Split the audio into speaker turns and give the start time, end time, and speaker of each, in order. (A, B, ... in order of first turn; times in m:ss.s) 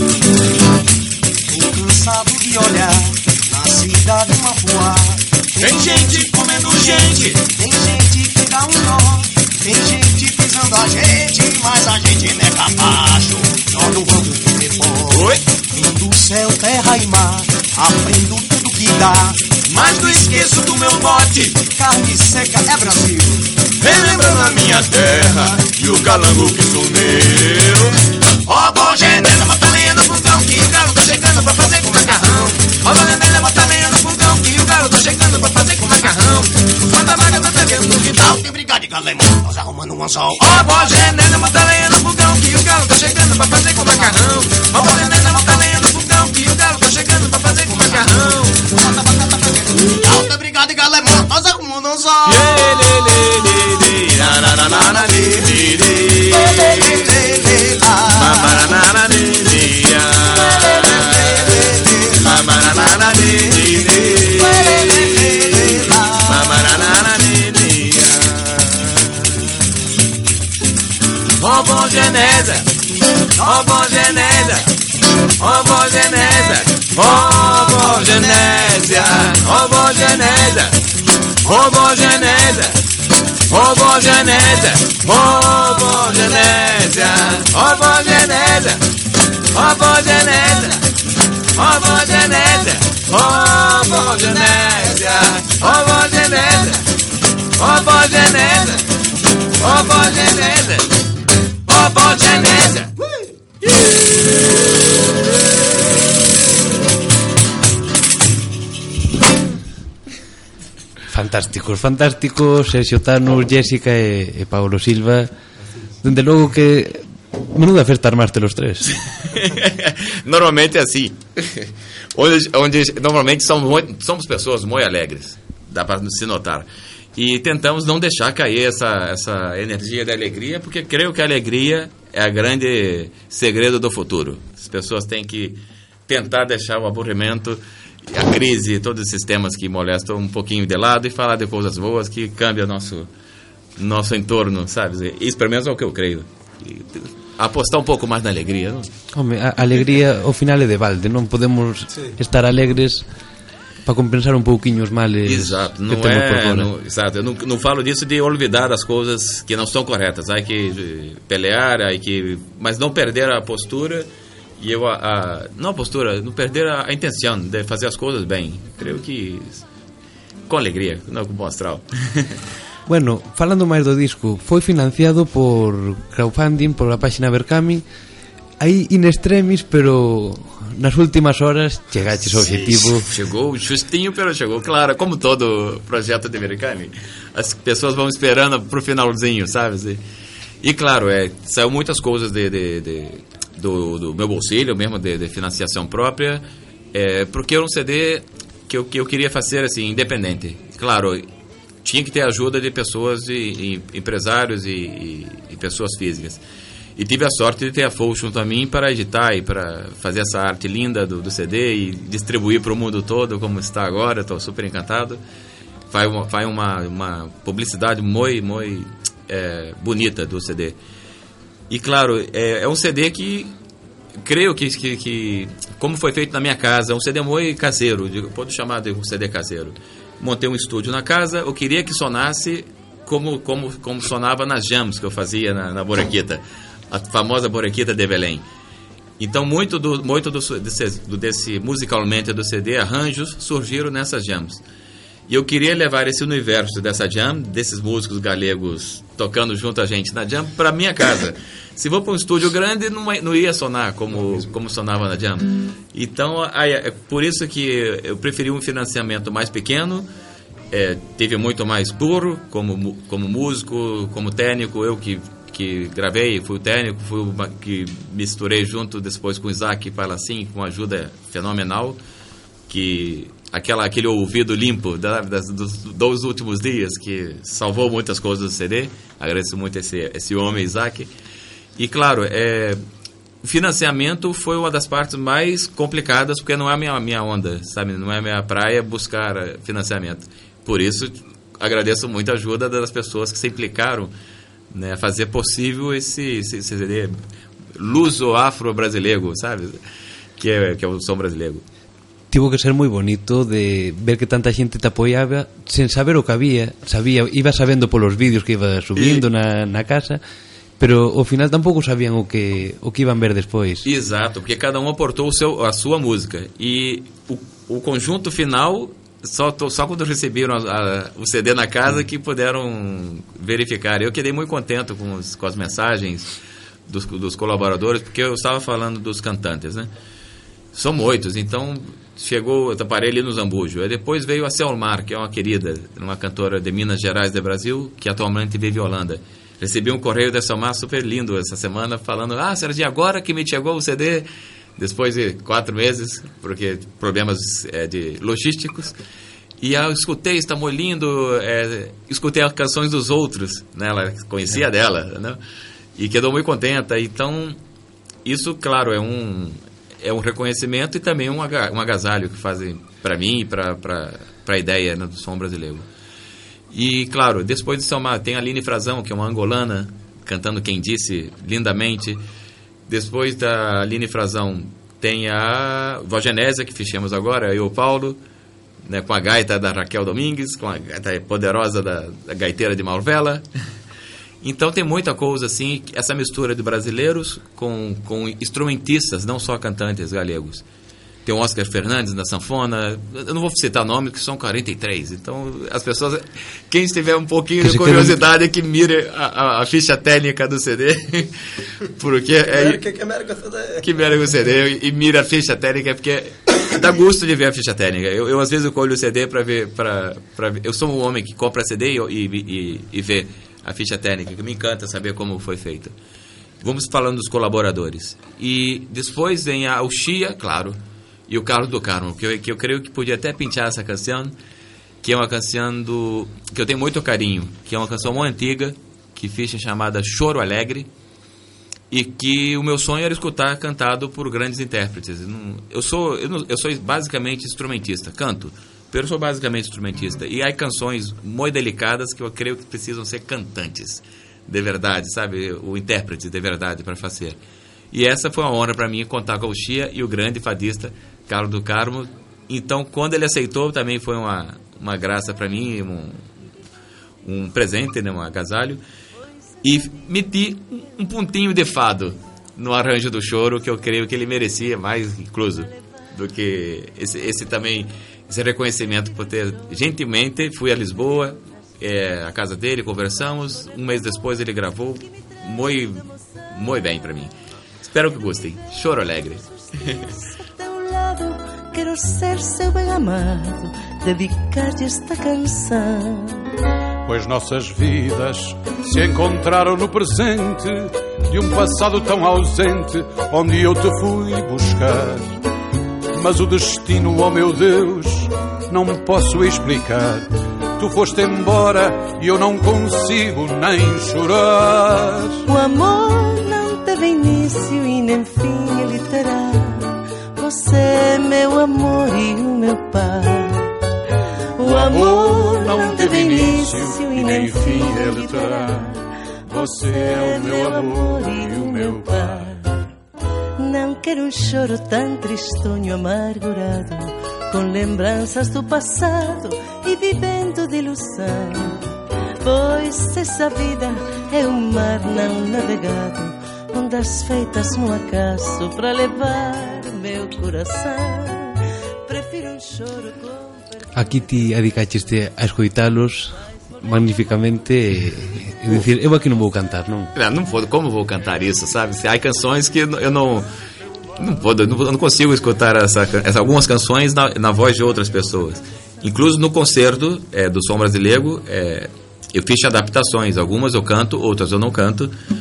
0:01.5-0:06.2 A
0:05.6-0:07.4 B
0:06.9-0:15.2 A
0:15.1-0:15.4 B
0:15.7-0:19.4 A
0:19.7-0:21.6 B
0:20.0-0:20.3 A
0:21.8-0:23.4 A
0:23.8-0:38.5 B
0:38.7-0:40.3 A
0:40.4-0:48.6 B
0:48.7-0:52.3 A
0:52.2-0:57.2 B
0:56.6-0:58.3 A
0:58.0-1:09.4 B
1:00.9-1:02.0 A
1:05.2-1:06.0 A
1:11.4-1:12.7 B
1:13.4-1:14.7 B
1:15.4-1:20.8 B
1:21.4-1:22.8 B
1:23.5-1:28.8 B
1:29.5-1:30.8 B
1:31.5-1:36.8 B
1:37.6-1:38.8 B
1:39.5-1:40.9 B
1:41.7-1:42.9 B
1:51.1-1:55.3 C
1:56.0-1:58.9 C
1:59.2-2:23.1 B
2:23.8-2:28.9 B
2:29.1-2:33.0 C
2:31.9-2:32.2 A
2:33.8-2:36.7 C
2:35.2-2:44.1 B
2:44.6-2:49.6 B
2:50.5-2:52.4 B
2:52.9-2:57.8 C
2:58.6-3:03.1 C
3:02.4-3:10.0 B
3:10.6-3:21.2 B
3:21.8-3:26.4 B
3:27.0-3:35.2 B
3:35.9-3:40.8 B
3:41.7-3:43.5 B
3:44.2-3:58.4 B
3:59.2-4:04.6 B
4:05.3-4:20.1 B
4:20.7-4:32.0 B
4:32.7-4:41.1 B
4:41.8-4:42.8 B
4:43.4-4:54.1 B
4:54.7-4:57.2 B
4:57.7-4:59.8 B
5:00.4-5:01.6 B
5:02.3-5:10.2 C
5:09.0-5:09.2 B
5:10.8-5:13.9 C
5:13.8-5:26.3 B
5:26.9-5:29.9 B
5:30.7-5:49.0 B
5:49.6-5:55.4 B
5:56.0-5:57.6 B
5:58.2-6:05.9 B
6:06.7-6:12.2 B
6:12.9-6:18.2 B
6:18.9-6:23.4 B
6:24.4-6:30.6 B
6:31.2-6:42.8 B
6:37.6-6:38.2 C
6:42.5-6:43.8 A
6:43.8-6:55.9 B
6:56.6-7:04.4 B
7:05.0-7:10.9 B
7:11.9-7:27.4 B
7:27.9-7:36.3 B
7:37.2-7:38.8 B
7:39.6-8:00.1 B
8:00.5-8:06.4 D
8:07.0-8:15.4 E
8:16.1-8:25.4 E
8:25.5-8:33.7 D
8:34.6-8:38.9 D
8:34.6-8:39.0 E
8:39.5-8:42.6 E
8:39.7-8:42.5 D
8:43.6-8:51.9 D
8:52.4-9:03.7 D
9:03.9-9:10.1 C
9:10.1-9:13.4 B
9:14.2-9:25.1 B